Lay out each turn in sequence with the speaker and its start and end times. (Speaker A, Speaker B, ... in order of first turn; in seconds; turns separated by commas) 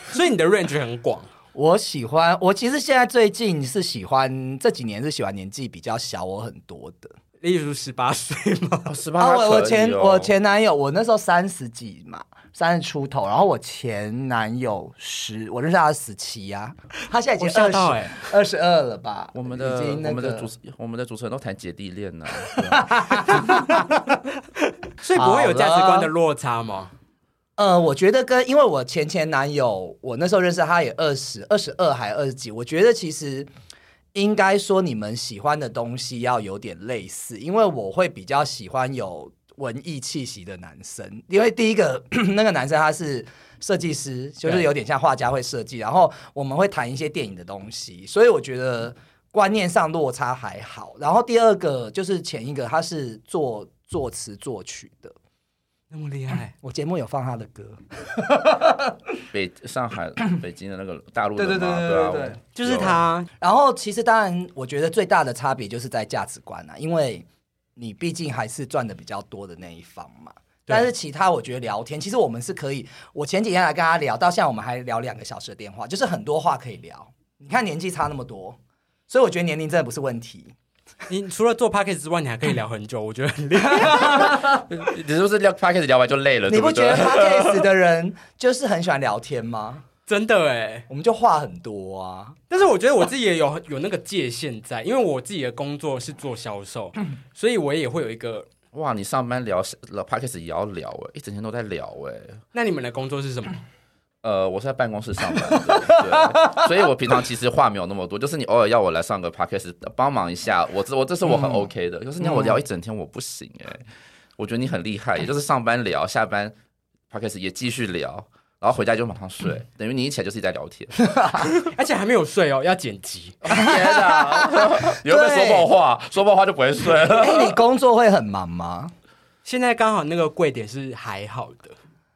Speaker A: 0.1-1.3, Speaker B: 1.5-7.2, Speaker A: 7.4-8.9, Speaker C: 8.9-10.3, Speaker B: 9.2-20.5, Speaker A: 17.4-18.3, Speaker C: 19.3-23.4, Speaker B: 22.5-24.0, Speaker A: 23.2-24.2, Speaker A: 25.0-26.9, Speaker B: 25.1-26.1, Speaker B: 27.6-33.5, Speaker B: 34.1-55.1, Speaker A: 44.4-44.7, Speaker A: 55.9-56.5, Speaker B: 56.6-59.2, Speaker C: 59.3-63.0, Speaker B: 61.4-62.8, Speaker A: 62.6-63.3, Speaker B: 63.4-67.2, Speaker B: 67.8-78.6, Speaker B: 79.1-80.5, Speaker A: 81.1-84.5, Speaker B: 83.7-84.7, Speaker C: 84.5-87.7, Speaker B: 86.5-89.8, Speaker A: 90.1-90.9, Speaker B: 90.9-92.4, Speaker A: 92.5-98.5, Speaker C: 98.7-102.4, Speaker A: 102.5-103.6, Speaker C: 104.2-113.8, Speaker B: 105.9-106.7, Speaker B: 111.3-111.7, Speaker B: 112.2-112.6, Speaker C: 114.4-116.5, Speaker C: 117.1-121.5, Speaker B: 121.0-121.5, Speaker A: 121.7-123.4, Speaker C: 123.4-127.6, Speaker B: 123.5-125.7, Speaker B: 127.1-128.9, Speaker A: 129.4-131.8